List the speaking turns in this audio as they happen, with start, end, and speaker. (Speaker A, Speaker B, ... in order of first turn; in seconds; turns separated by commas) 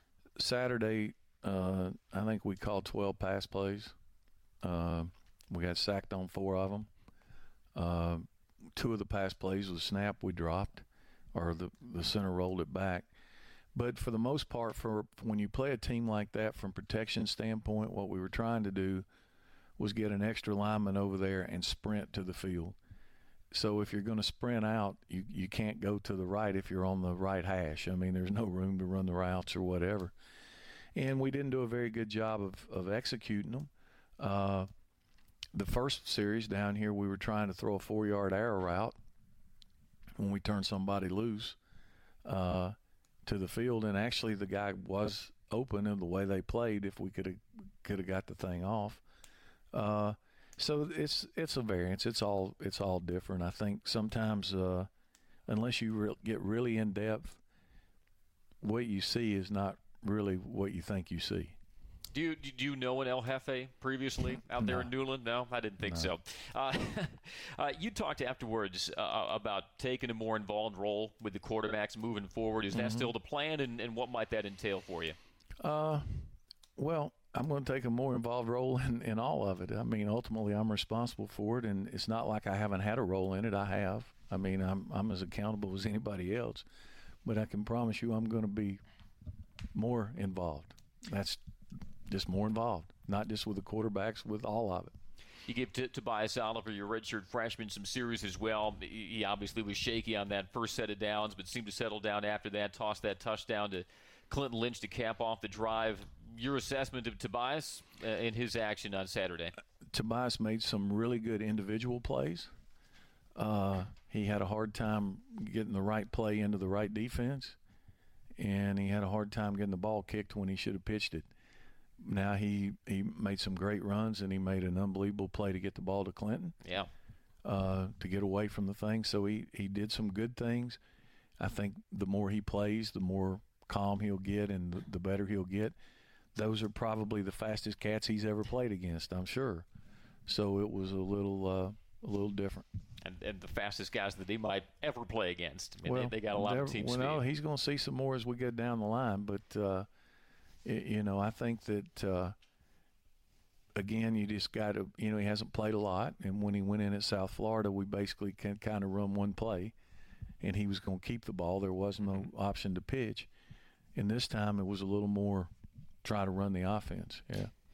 Speaker A: 0.4-3.9, Speaker A: 4.6-6.9, Speaker A: 7.7-13.1, Speaker A: 13.7-19.1, Speaker A: 19.8-22.8, Speaker A: 23.5-30.1, Speaker A: 30.9-34.7, Speaker A: 35.5-39.0, Speaker A: 40.1-41.6, Speaker A: 42.2-49.0, Speaker A: 49.7-54.9, Speaker A: 55.5-57.4, Speaker A: 58.6-61.6, Speaker B: 62.1-75.2, Speaker A: 64.6-64.9, Speaker A: 65.8-66.1, Speaker A: 72.7-73.1, Speaker A: 75.6-86.7, Speaker A: 87.2-88.8, Speaker A: 89.7-91.4, Speaker A: 92.1-94.9, Speaker B: 95.5-109.5, Speaker A: 109.9-112.5, Speaker A: 113.3-117.6, Speaker A: 118.4-121.3, Speaker A: 122.0-126.5, Speaker B: 126.6-126.9, Speaker A: 127.4-130.8, Speaker A: 131.4-135.7, Speaker A: 136.3-139.7, Speaker A: 140.2-142.7, Speaker B: 143.0-147.2, Speaker A: 145.8-149.9, Speaker A: 150.6-152.3, Speaker A: 153.8-159.7, Speaker A: 160.4-163.3, Speaker A: 163.9-165.5, Speaker A: 166.0-167.5